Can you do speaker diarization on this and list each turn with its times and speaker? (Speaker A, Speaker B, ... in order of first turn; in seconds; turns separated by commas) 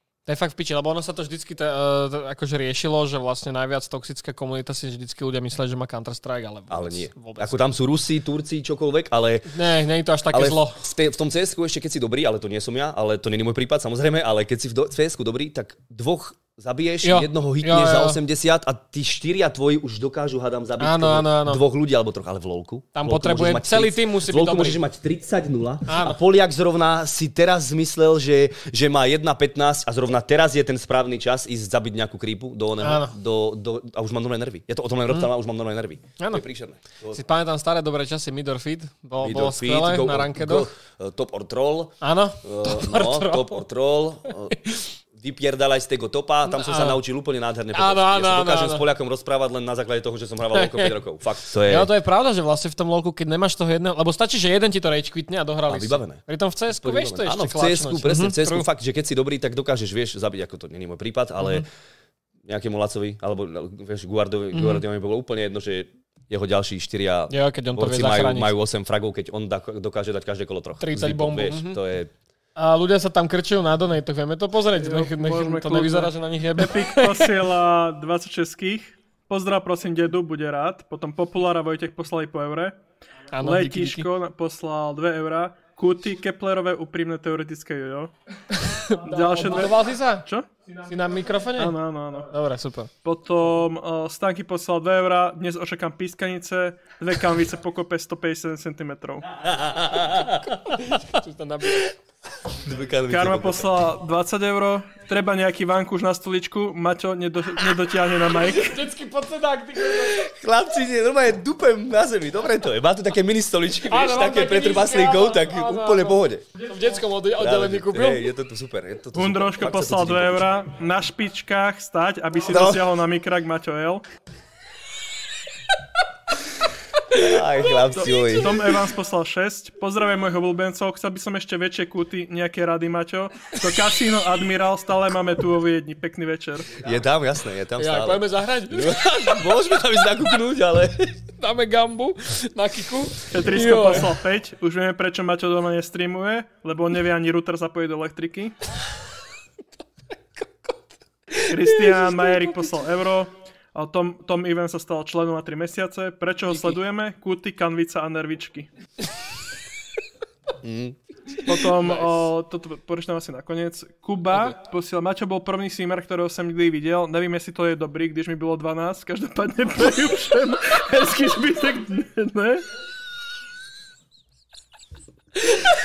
Speaker A: 0.3-7.6, Speaker B: 6.7-9.5, Speaker A: 9.5-10.8, Speaker B: 10.3-37.2, Speaker A: 17.0-18.2, Speaker A: 20.8-21.6, Speaker A: 22.9-24.8, Speaker A: 25.9-26.2, Speaker A: 32.8-33.1, Speaker A: 37.1-40.7, Speaker B: 39.2-44.6, Speaker A: 42.0-43.6, Speaker A: 44.5-44.9, Speaker B: 45.1-51.9, Speaker A: 46.5-47.0, Speaker A: 47.7-48.9, Speaker A: 50.5-51.0, Speaker A: 51.6-58.7, Speaker B: 55.7-61.6, Speaker A: 61.4-61.7, Speaker B: 62.4-72.1, Speaker A: 64.5-64.8, Speaker A: 67.3-68.5, Speaker A: 70.8-71.8, Speaker A: 72.6-77.3, Speaker C: 74.8-82.8, Speaker A: 83.3-84.1, Speaker C: 83.4-88.1, Speaker A: 88.5-90.3, Speaker C: 88.8-90.5, Speaker A: 90.8-92.9, Speaker C: 91.6-92.3, Speaker C: 93.0-99.3, Speaker B: 99.3-101.0, Speaker A: 100.7-102.0, Speaker B: 102.5-103.9, Speaker C: 103.1-108.8, Speaker A: 108.4-110.3, Speaker B: 109.9-116.5, Speaker A: 113.8-118.3, Speaker B: 117.4-120.5, Speaker C: 119.2-124.0, Speaker B: 122.5-122.8, Speaker B: 127.1-128.6, Speaker C: 127.8-136.8, Speaker B: 136.8-141.2, Speaker A: 137.8-139.2, Speaker A: 141.4-144.1, Speaker C: 143.3-148.6, Speaker A: 151.3-152.6, Speaker C: 151.5-158.7, Speaker A: 156.5-156.8, Speaker B: 160.6-161.0, Speaker C: 161.4-172.7, Speaker A: 161.8-162.1